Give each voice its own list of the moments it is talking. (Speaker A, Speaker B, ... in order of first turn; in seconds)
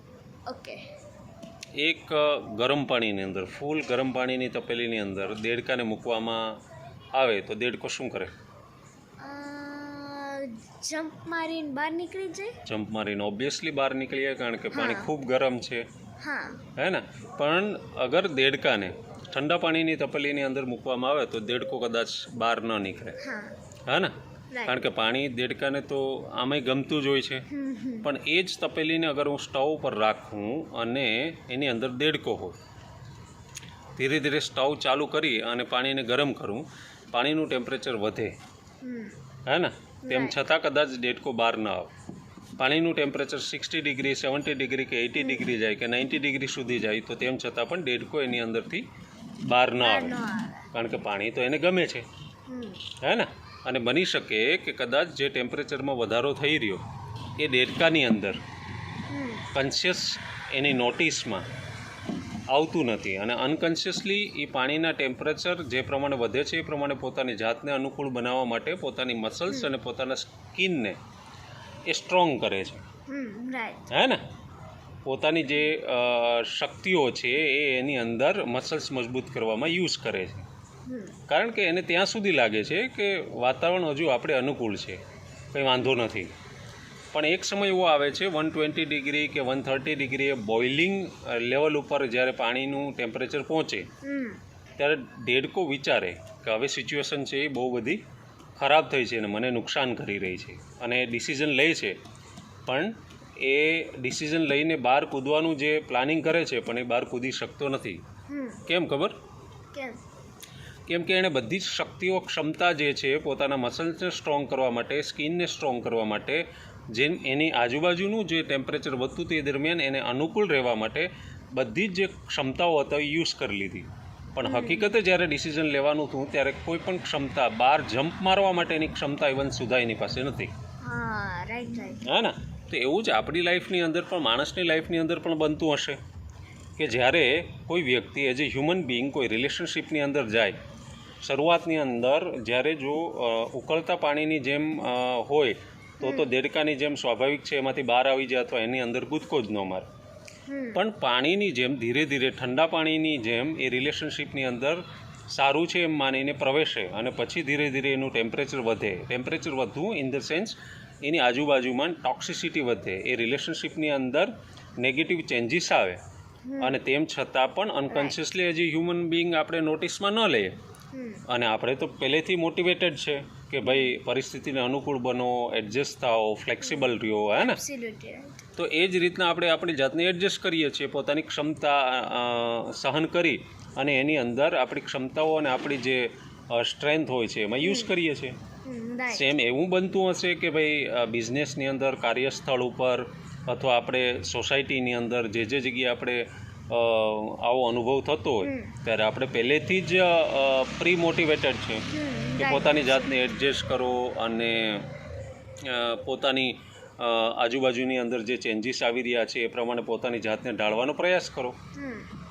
Speaker A: 0.5-0.8, 9.2-12.6, 14.7-15.1, 16.2-16.6, 23.2-23.6, 24.5-24.8, 27.5-28.1, 38.8-39.2, 40.0-40.4, 45.2-45.5, 49.8-50.7, 52.5-52.8, 59.1-59.5, 73.1-73.9, 80.9-81.2, 94.0-94.4, 108.3-108.6, 109.7-110.0, 124.4-124.9, 130.8-132.1, 146.0-146.3, 150.5-150.8, 166.5-166.8, 167.9-168.2, 170.9-171.2, 173.7-173.9, 177.4-178.4, 187.6-187.9, 188.7-189.3, 198.4-198.7, 201.9-203.1, 211.8-212.1
Speaker B: 1.8-6.4, 7.1-8.3, 12.7-15.8, 16.8-23.2, 23.9-24.1, 24.6-27.5, 28.0-32.6, 34.0-38.3, 39.5-41.9, 42.6-48.9, 49.5-50.2, 50.7-52.0, 53.0-56.8, 57.4-58.4, 59.5-61.5, 62.5-71.0, 71.9-72.8, 73.9-74.2, 75.1-80.5, 81.3-85.0, 85.5-86.3, 87.1-93.9, 94.8-98.0, 98.6-102.0, 102.7-108.0, 108.7-109.2, 110.9-130.5, 132.1-136.0, 136.8-140.6, 141.2-149.9, 150.8-166.0, 166.6-170.6, 171.3-177.6, 178.6-188.4, 189.1-201.9, 202.4-204.9, 205.6-211.6